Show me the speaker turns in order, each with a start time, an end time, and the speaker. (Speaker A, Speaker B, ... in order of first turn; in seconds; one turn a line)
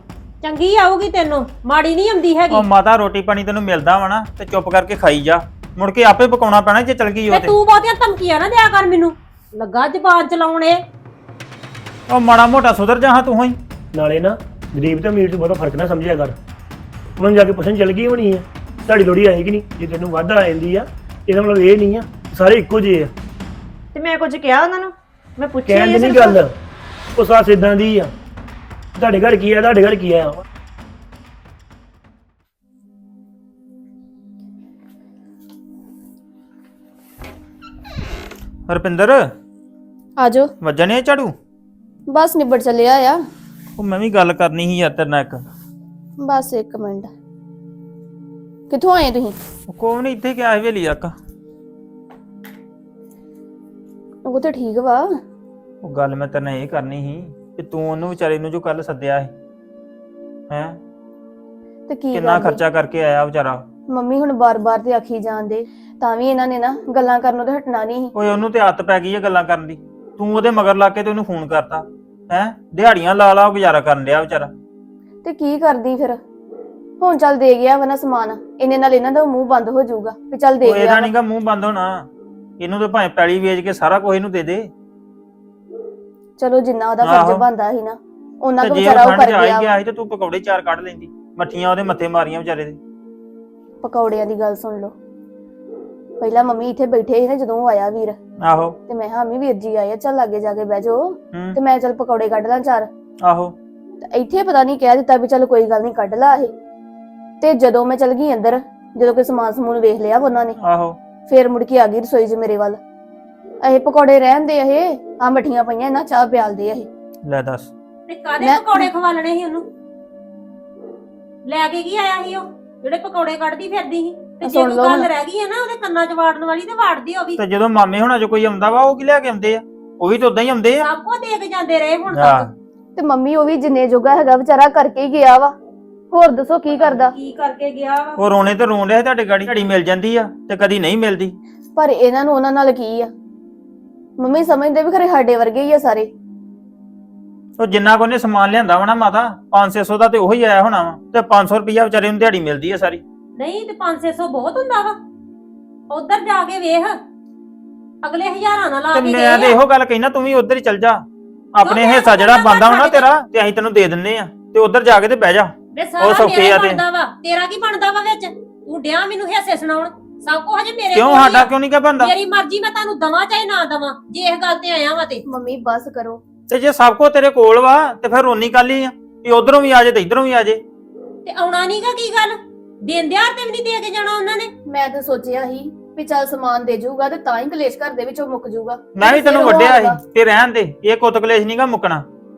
Speaker A: 0.4-2.7
Speaker B: 2.5-7.6
Speaker A: 7.3-10.8
Speaker B: 12.1-13.6
Speaker C: 13.9-16.4
Speaker C: 17.2-23.1
Speaker D: 23.9-26.4
Speaker C: 25.7-26.5
Speaker C: 27.2-28.1
Speaker C: 29.0-30.4
Speaker B: 38.7-39.3
Speaker E: 40.2-40.5
Speaker B: 40.6-41.4
Speaker E: 42.1-43.2
Speaker B: 43.8-45.5
Speaker E: 46.2-47.1
Speaker E: 48.7-49.4
Speaker B: 49.7-51.1
Speaker E: 54.3-55.1
Speaker B: 55.8-59.3
Speaker B: 60.5-60.8
Speaker E: 61.9-62.6
Speaker B: 62.1-63.7
Speaker E: 63.9-68.1
Speaker B: 68.2-74.5
Speaker E: 75.2-76.2
Speaker E: 77.0-81.1
Speaker B: 80.6-82.1
Speaker B: 82.6-84.7
Speaker E: 86.4-89.7
Speaker B: 87.0-87.4
Speaker B: 88.6-92.8
Speaker E: 93.8-94.9
Speaker E: 96.2-98.2
Speaker B: 98.4-98.8
Speaker E: 98.9-102.9
Speaker B: 103.2-103.6
Speaker E: 104.0-106.5
Speaker E: 107.4-110.6
Speaker B: 110.6-111.0
Speaker E: 111.3-112.8
Speaker E: 113.6-116.9
Speaker B: 117.2-117.7
Speaker A: 118.1-119.7
Speaker E: 118.4-118.9
Speaker A: 121.5-127.4
Speaker E: 124.4-125.1
Speaker B: 127.4-130.9
Speaker A: 130.8-132.5
Speaker B: 132.1-132.5
Speaker E: 133.0-135.5
Speaker E: 136.1-137.2
Speaker A: 136.7-138.2
Speaker B: 138.2-141.4
Speaker E: 141.8-143.1
Speaker E: 144.2-146.1
Speaker B: 147.6-153.0
Speaker A: 153.4-155.0
Speaker A: 155.9-157.0
Speaker A: 158.0-159.6
Speaker B: 158.9-166.8
Speaker A: 161.6-163.1
Speaker A: 165.7-175.2
Speaker B: 170.9-172.1
Speaker E: 175.3-176.2
Speaker B: 176.5-180.6
Speaker A: 181.2-184.5
Speaker E: 184.7-190.0
Speaker B: 189.0-192.1